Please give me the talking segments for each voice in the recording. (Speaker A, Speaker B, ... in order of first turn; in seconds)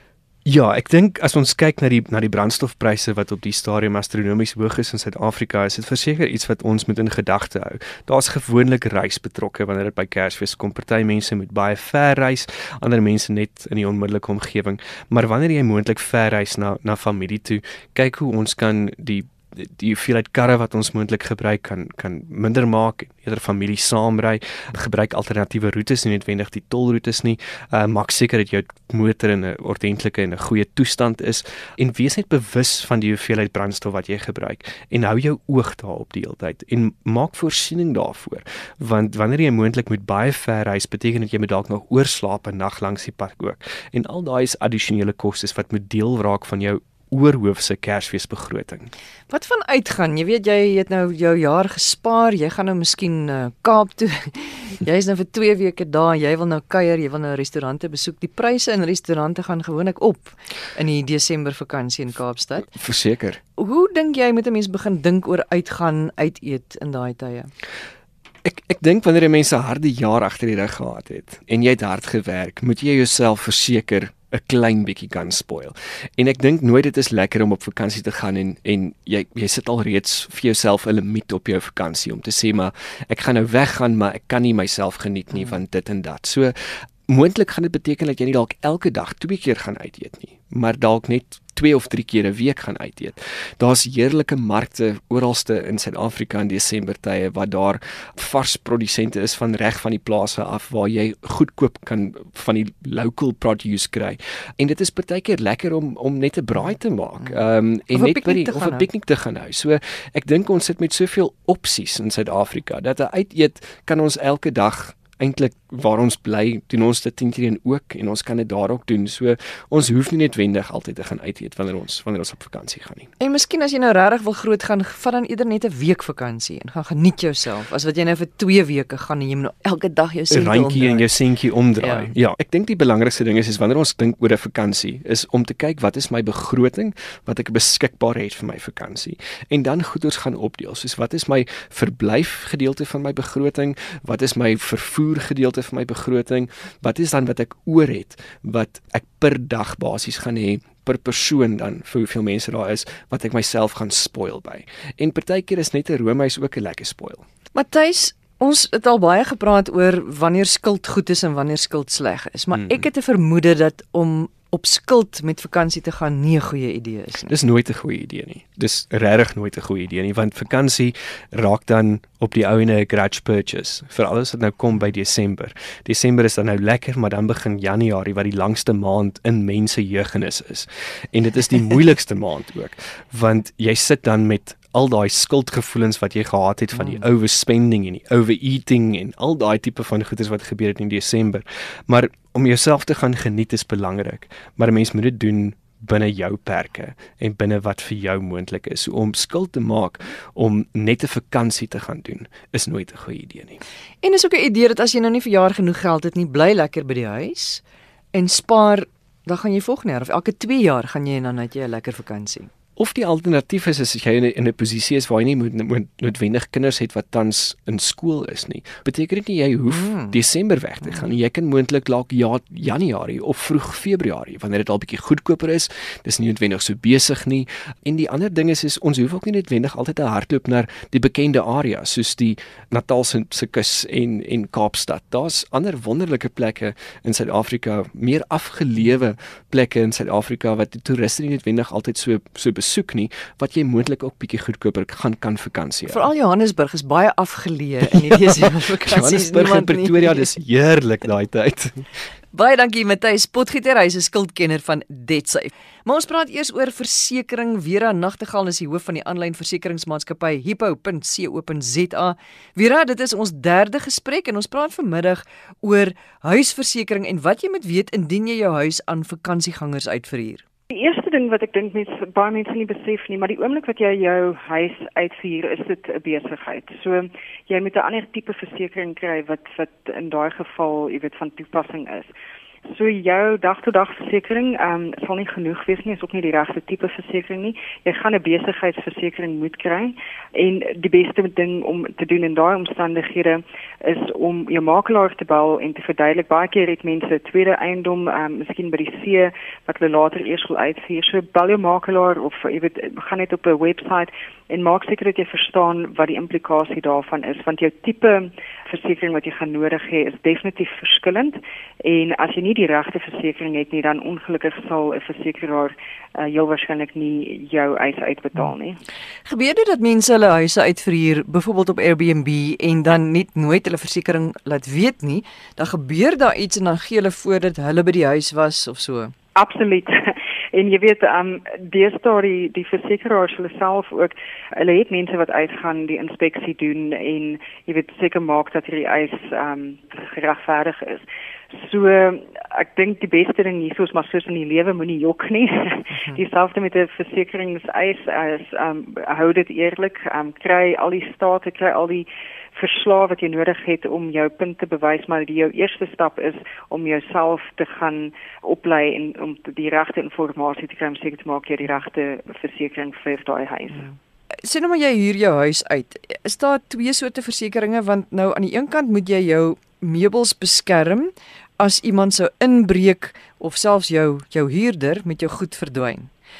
Speaker A: 0.4-48.9, 62.7-63.4, 68.4-123.1, 130.3-157.2, 167.3-203.6, 212.8-246.1, 247.9-251.9
Speaker B: 49.3-62.7, 63.6-67.5, 107.9-108.9, 123.2-131.1, 131.8-132.1, 157.5-167.3, 204.0-207.6, 208.1-212.5, 219.7-220.2, 245.9-250.3, 252.3-270.4, 319.2-329.1, 364.4-376.1
Speaker C: 270.7-282.1, 282.7-318.8, 329.3-363.9